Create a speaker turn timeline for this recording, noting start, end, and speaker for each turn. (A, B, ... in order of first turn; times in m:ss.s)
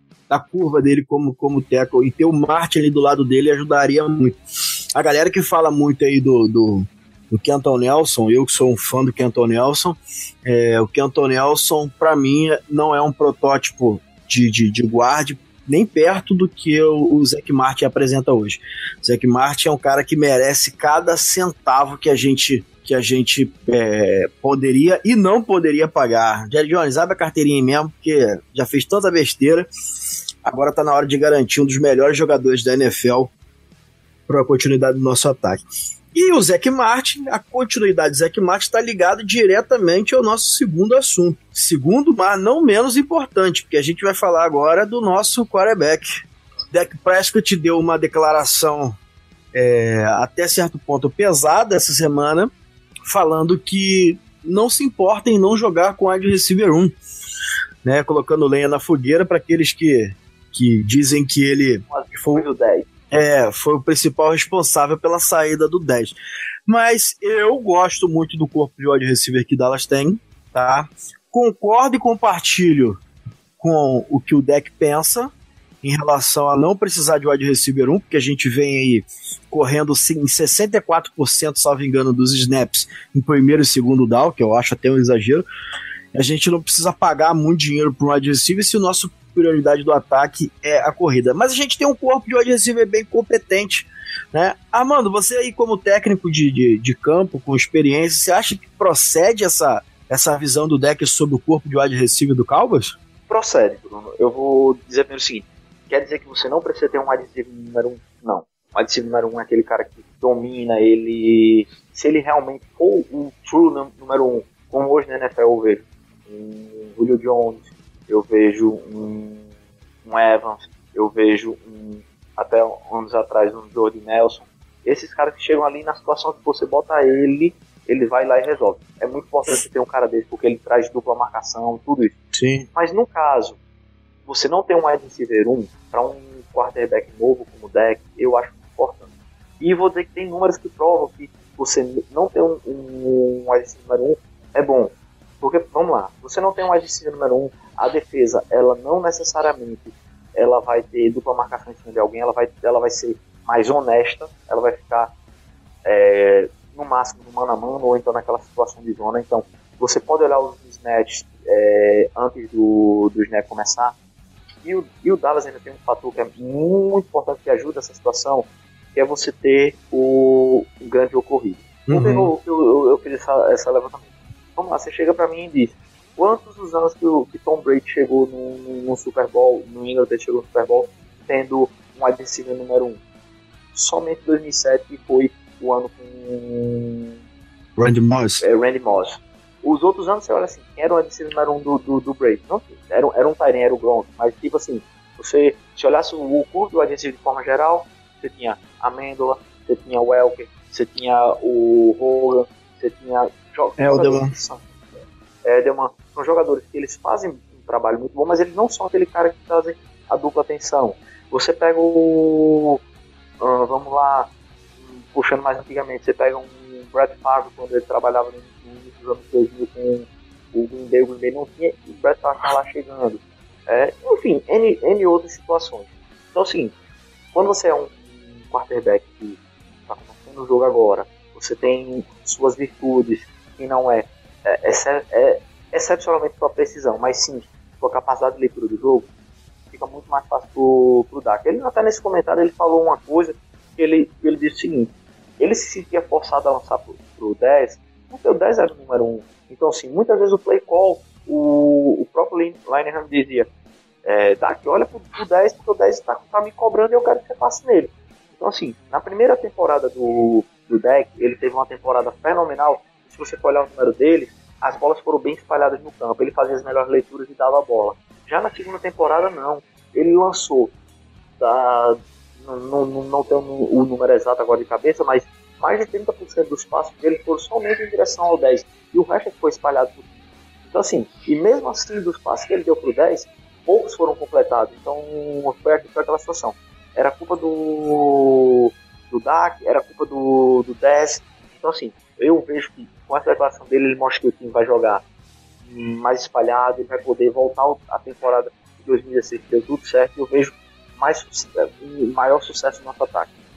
0:00.3-0:04.4 A
0:05.0-0:29.7 A
0:30.4-0:33.3 A
0:34.3-0:35.6 A
0:36.1-0:49.0 A
0:49.5-0:52.5 A
0:53.1-0:57.0 A
0:57.8-1:02.4 A
1:01.9-1:02.9 B
1:03.1-1:06.2 A
1:06.7-1:13.0 A
1:13.6-1:15.3 A
1:15.8-1:25.4 A
1:26.1-1:43.0 A
1:43.3-1:59.5 B
2:00.0-2:12.2 B
2:12.3-2:12.7 A
2:12.8-2:13.6 B
2:14.3-2:19.1 B
2:19.6-2:35.1 B
2:35.8-2:44.0 B
2:44.6-2:54.0 B
2:51.9-2:52.3 A
2:54.6-3:03.0 B
3:03.8-3:07.2 B
3:07.8-3:08.4 A
3:08.4-3:24.6 B
3:23.8-3:24.3 A
3:25.4-3:32.8 B
3:33.4-3:34.3 B
3:35.1-3:46.7 B
3:47.3-3:59.1 B
3:59.7-4:13.5 B
4:14.0-4:30.7 B
4:31.4-4:40.0 B
4:40.7-4:55.0 B
4:55.7-5:03.3 B